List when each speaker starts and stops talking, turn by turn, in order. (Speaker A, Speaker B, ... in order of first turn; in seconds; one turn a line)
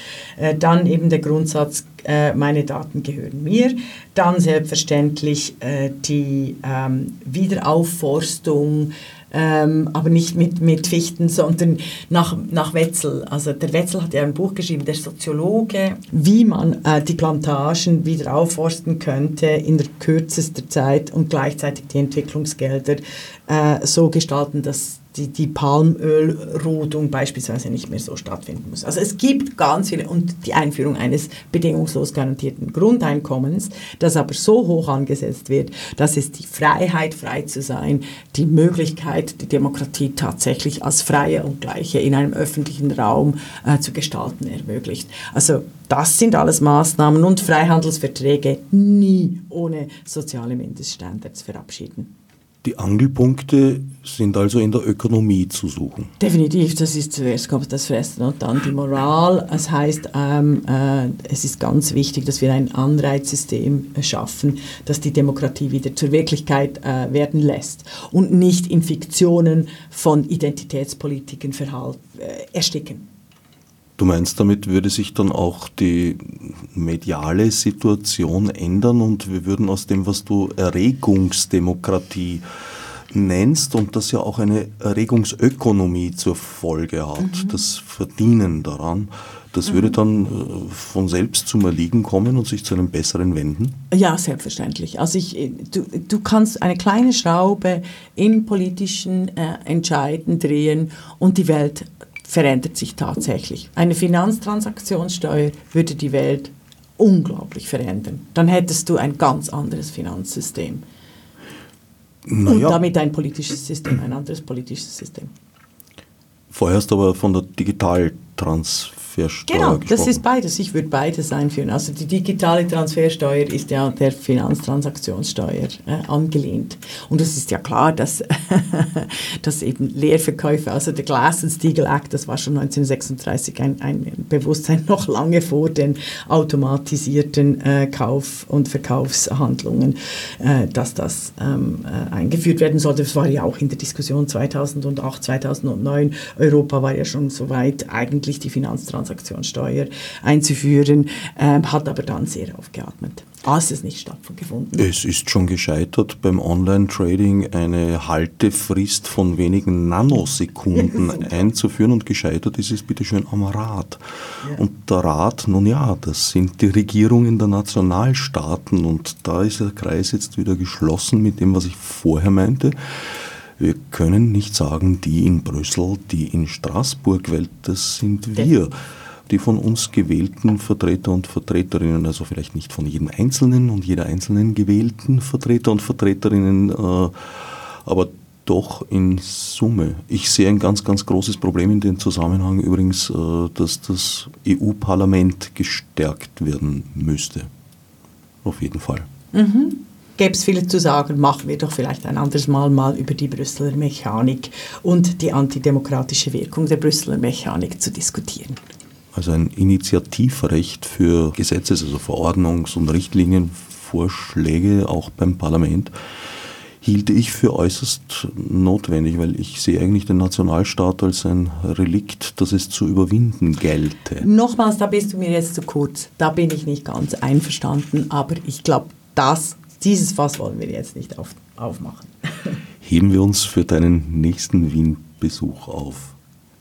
Speaker A: 0.4-52.1
Speaker B: 52.6-56.1
Speaker A: 56.2-73.1
Speaker B: 74.0-82.5
Speaker B: 83.1-93.8
Speaker A: 87.2-87.6
Speaker A: 89.7-90.0
Speaker A: 93.9-110.8
Speaker B: 112.3-112.8
Speaker A: 112.5-115.3
Speaker B: 116.5-120.2
Speaker A: 119.5-154.9
Speaker B: 154.8-164.0
Speaker B: 164.5-178.7
Speaker B: 179.3-197.5
Speaker B: 198.4-199.1
Speaker A: 199.3-208.6
Speaker B: 209.1-215.9
Speaker B: 216.8-224.3
Speaker A: 224.2-232.6
Speaker B: 232.8-236.2